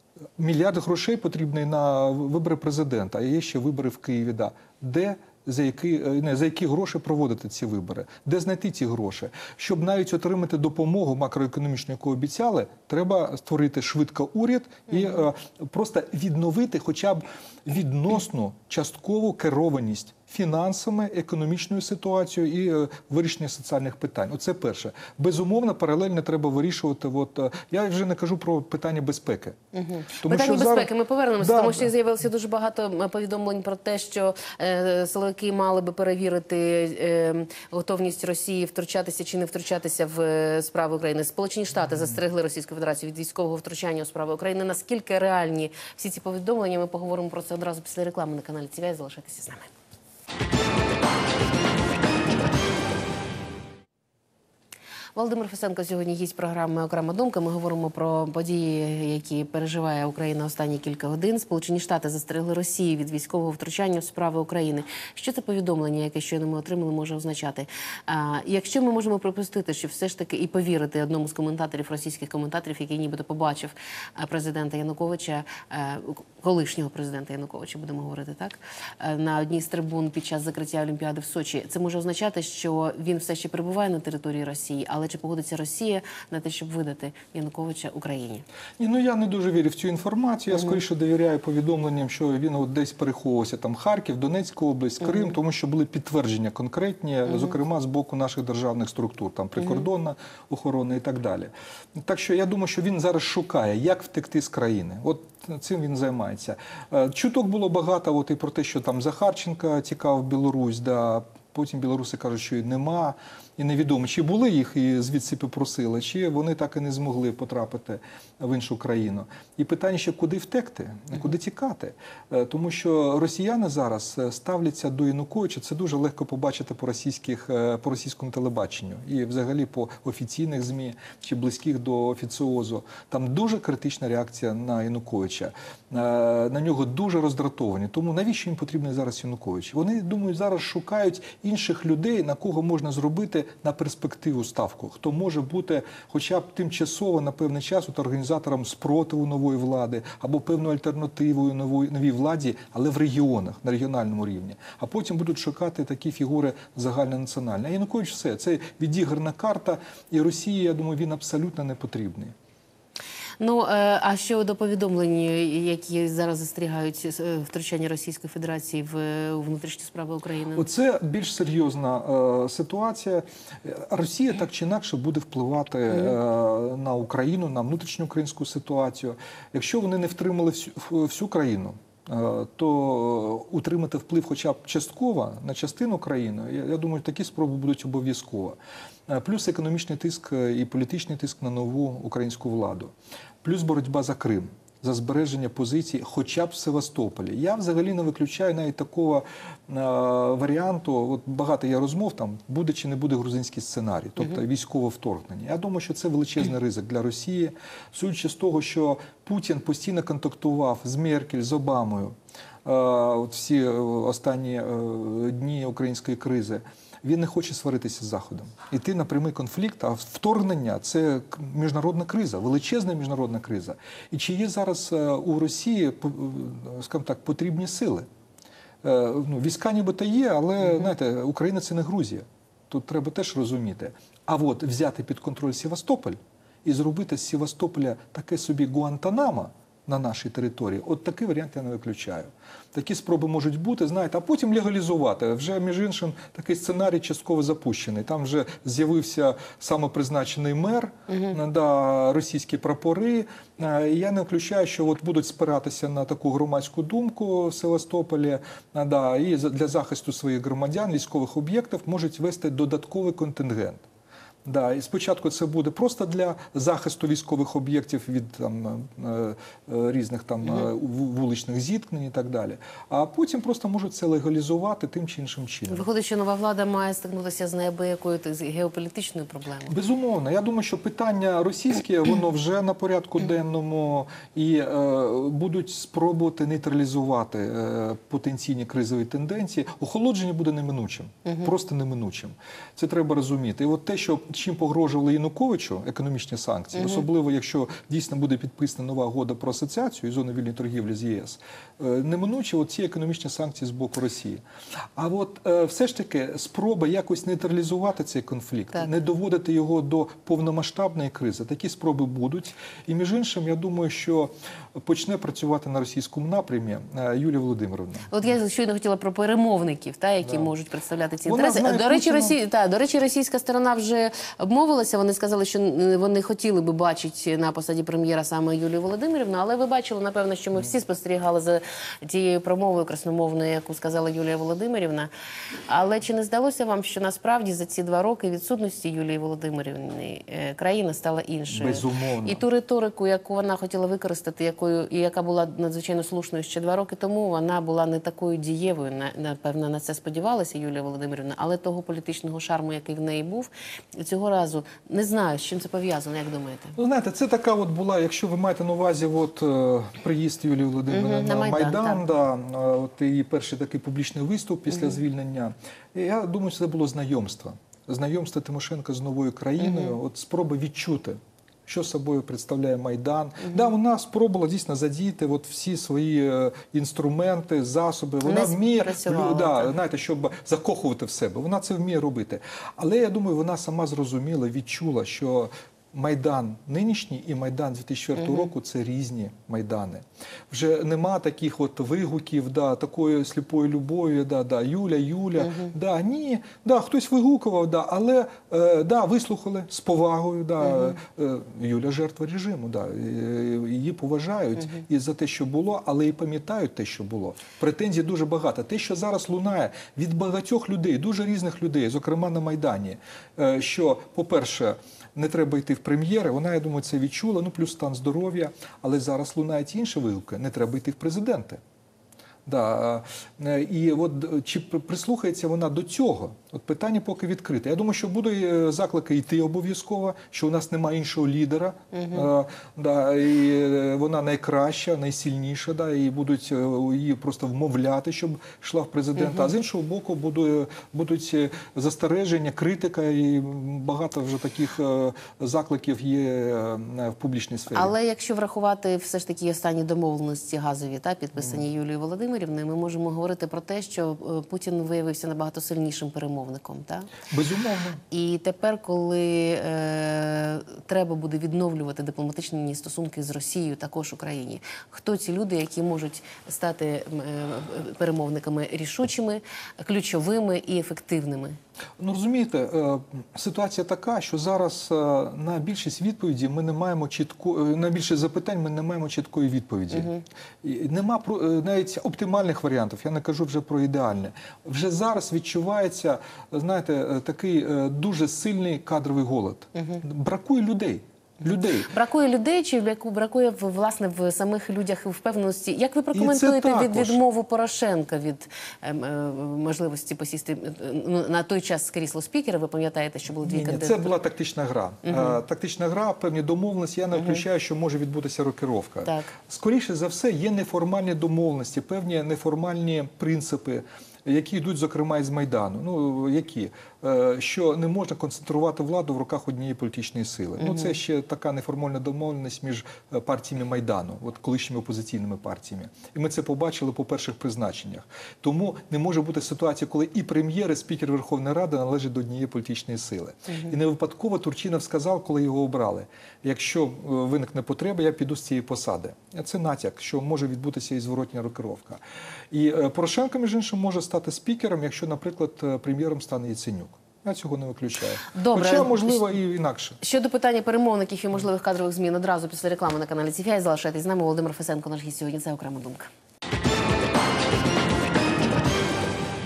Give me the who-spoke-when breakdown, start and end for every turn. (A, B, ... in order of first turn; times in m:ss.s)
0:00.4-0:29.6 A
0:29.7-0:49.7 B
0:30.2-0:31.9 A
0:55.2-1:28.4 B
1:28.8-2:42.3 A
2:43.4-2:50.6 B
2:50.5-3:08.6 A
3:09.1-3:12.9 A
3:13.4-3:48.0 A
3:48.8-4:23.8 A
4:11.1-4:11.4 B
4:24.4-4:35.9 A
4:35.7-4:39.7 B
4:39.7-5:04.4 A
4:56.8-4:57.0 B
5:05.0-5:18.1 A
5:18.1-5:35.1 B
5:21.3-5:22.4 A
5:35.7-5:56.8 B
5:41.5-5:42.4 A
5:56.8-7:01.6 A
6:00.9-6:02.0 B
6:09.6-6:10.0 B
6:18.2-6:19.7 B
7:02.5-7:27.9 A
7:11.9-7:12.3 B
7:27.7-7:37.1 B
7:37.3-7:38.0 A
7:38.1-7:51.6 B
7:52.0-8:00.1 A
7:59.9-8:00.2 B
8:00.6-8:11.9 A
8:09.8-8:10.0 B
8:11.5-8:24.2 B
8:16.1-8:17.2 A
8:23.4-9:02.0 A
8:25.0-8:25.4 B
8:27.2-8:27.4 B
8:29.0-8:29.3 B
8:40.6-8:41.0 B
9:02.5-9:10.0 A
9:08.3-9:09.3 B
9:10.0-9:16.1 B